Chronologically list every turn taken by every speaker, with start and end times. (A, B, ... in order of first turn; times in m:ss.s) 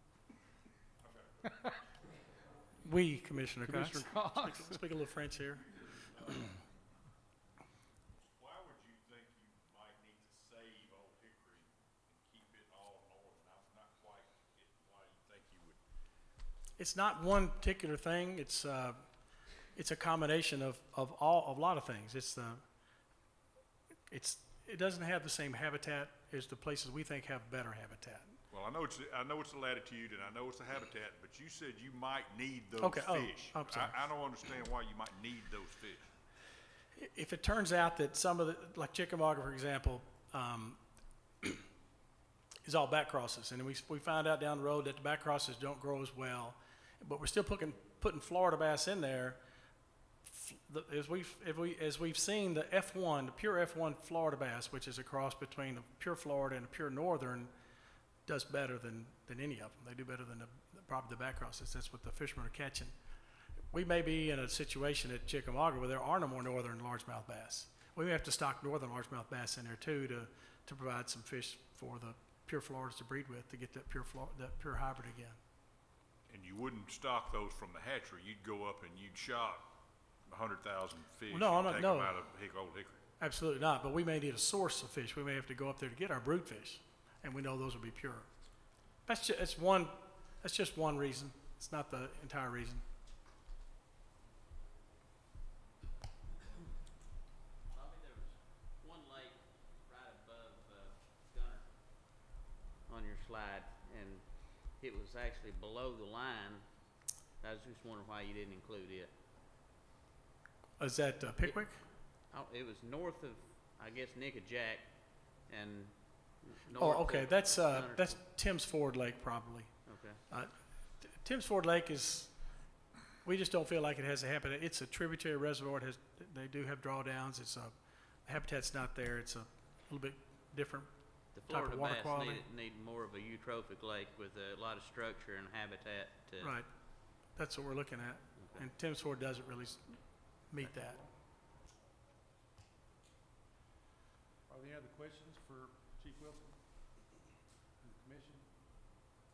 0:01.0-0:01.4 A
0:01.5-0:01.8 B
0:02.8-0:05.6 C
0:03.6-0:04.8 B
0:08.1-0:15.8 A
0:16.8-0:22.8 C
0:24.1-0:28.4 C
0:28.5-0:36.1 A
0:32.8-0:34.1 C
0:37.0-0:40.8 C
0:42.6-0:49.4 C
0:50.2-0:57.5 C
0:58.2-1:02.9 C
1:03.7-1:15.4 C
1:16.3-1:19.7 A
1:20.3-1:23.0 A
1:21.3-1:22.2 C
1:23.2-1:28.3 C
1:29.0-1:32.8 C
1:37.7-1:41.7 D
1:42.9-1:46.7 D
1:47.4-1:49.1 D
1:50.8-1:51.8 C
1:52.2-1:58.2 D
1:56.8-2:12.4 C
1:59.8-2:00.2 D
2:11.3-2:16.5 D
2:16.4-2:21.0 C
2:18.4-2:18.6 D
2:20.6-2:21.0 B
2:24.5-2:27.1 B
2:27.8-2:28.5 B